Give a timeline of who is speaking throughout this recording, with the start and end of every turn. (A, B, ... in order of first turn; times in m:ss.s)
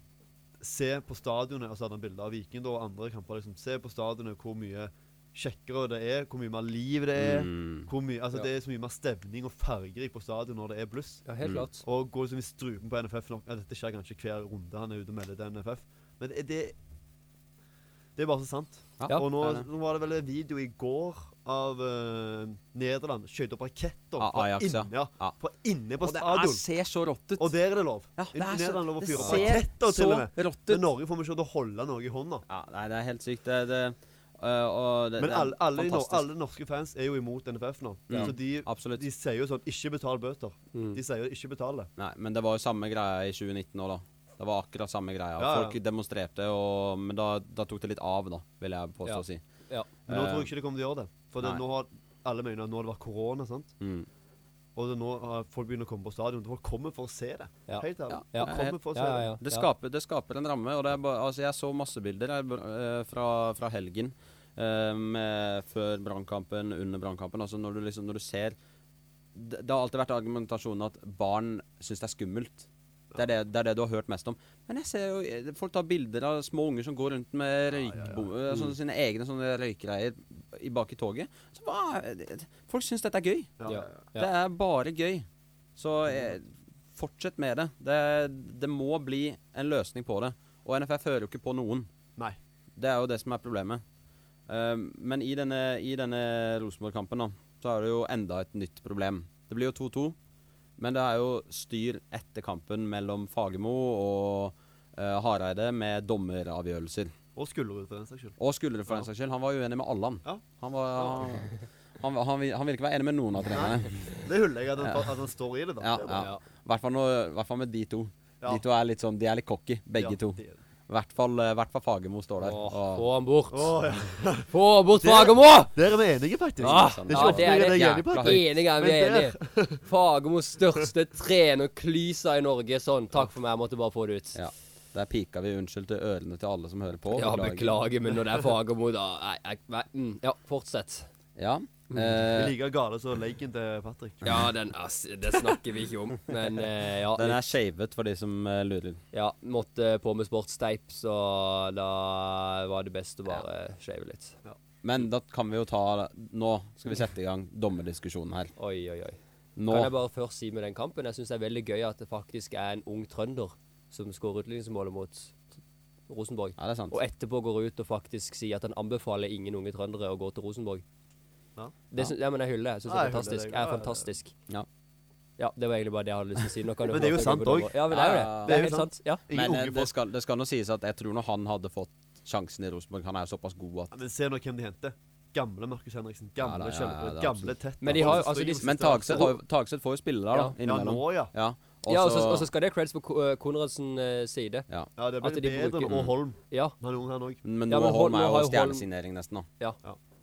0:00.6-0:11.2 A
0:07.2-0:07.9 B
0:11.2-0:11.8 C
0:11.8-0:16.7 A
0:18.2-0:26.6 A
0:19.0-0:19.6 B
0:24.2-0:25.3 B
0:26.0-0:27.5 B
0:27.4-0:32.4 A
0:28.2-0:30.8 B
0:29.2-0:29.5 C
0:32.5-0:36.2 B
0:35.2-0:41.9 A
0:38.1-0:39.0 B
0:40.7-0:41.0 C
0:42.0-0:49.4 B
0:45.4-0:45.8 A
0:49.0-0:49.9 C
0:50.1-0:50.5 B
0:50.1-0:53.7 A
0:53.8-0:54.1 B
0:54.8-0:59.3 A
0:57.7-0:59.7 C
0:58.1-0:58.8 B
0:59.4-1:08.6 B
1:09.3-1:31.9 B
1:17.8-1:18.2 A
1:23.6-1:23.9 A
1:23.7-1:24.3 C
1:32.8-1:33.8 B
1:34.5-1:40.2 B
1:40.8-1:47.1 B
1:47.4-1:48.4 A
1:48.4-1:54.1 B
1:51.0-1:51.3 A
1:53.5-1:56.2 A
1:54.8-1:55.1 B
1:55.8-2:03.0 B
1:56.1-1:56.4 C
2:00.0-2:00.6 A
2:02.4-2:03.8 C
2:03.5-2:09.8 A
2:04.5-2:05.7 C
2:06.6-2:08.4 B
2:06.6-2:14.4 C
2:14.3-2:17.8 B
2:17.1-2:21.1 C
2:21.4-2:22.5 B
2:22.3-2:24.5 A
2:24.2-2:27.5 C
2:27.1-2:29.0 B
2:29.1-2:34.4 C
2:34.8-2:38.5 B
2:38.6-2:45.5 C
2:39.6-2:39.9 B
2:46.1-2:50.8 C
2:46.6-2:47.0 B
2:51.9-2:54.3 C
2:52.9-2:54.0 A
2:55.4-2:59.2 C
2:56.9-2:57.8 A
2:57.9-2:58.6 B
2:58.4-2:59.9 A
2:59.3-3:03.9 B
3:03.9-3:09.3 A
3:06.4-3:12.5 B
3:07.8-3:09.3 C
3:10.6-3:11.3 A
3:11.9-3:14.7 C
3:15.0-3:17.4 A
3:15.2-3:16.7 C
3:15.9-3:16.1 B
3:17.4-3:19.5 B
3:17.7-3:18.8 C